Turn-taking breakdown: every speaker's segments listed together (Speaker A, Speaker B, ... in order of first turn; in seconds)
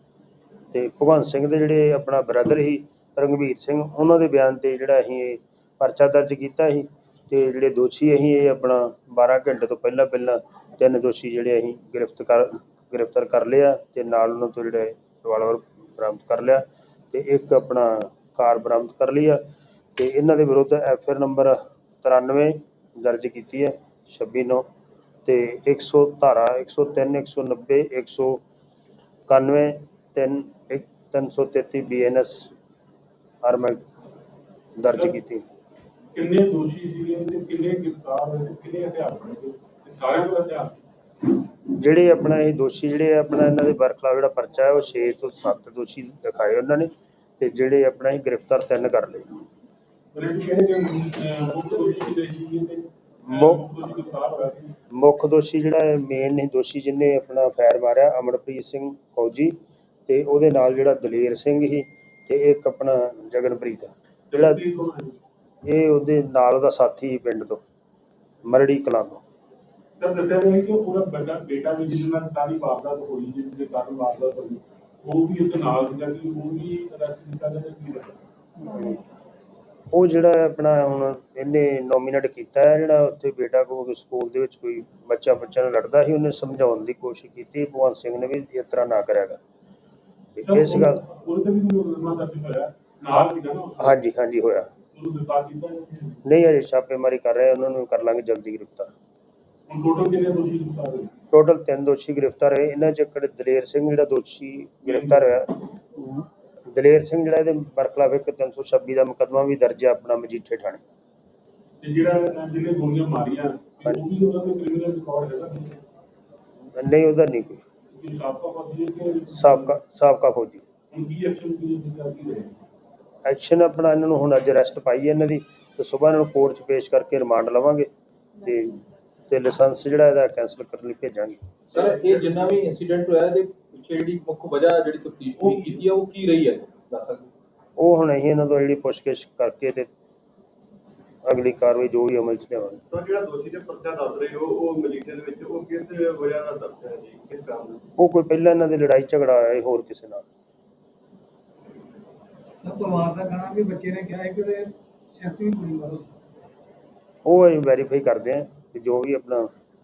Speaker A: 0.7-19.4, 20.0-24.7, 25.2-28.4, 29.3-32.5, 33.4-33.8, 34.8-35.4, 41.7-49.4, 53.3-53.6, 54.9-59.6, 60.1-64.6, 65.6-67.6, 68.5-69.2, 78.6-79.0, 79.9-89.4, 90.4-91.0, 93.8-94.7, 96.3-98.9, 101.3-110.8, 116.7-117.6, 119.3-120.6, 123.2-131.4, 137.8-139.9, 141.2-142.8, 148.0-150.2, 157.2-159.5
Speaker B: 34.9-35.2, 36.1-40.8, 50.1-54.8, 64.3-65.2, 70.0-78.2, 90.4-94.0, 94.9-96.2, 99.7-101.1, 104.8-105.4, 111.8-115.8, 117.9-119.8, 120.9-122.6
Speaker C: 131.7-137.3
Speaker D: 142.9-147.8
Speaker E: 152.6-156.1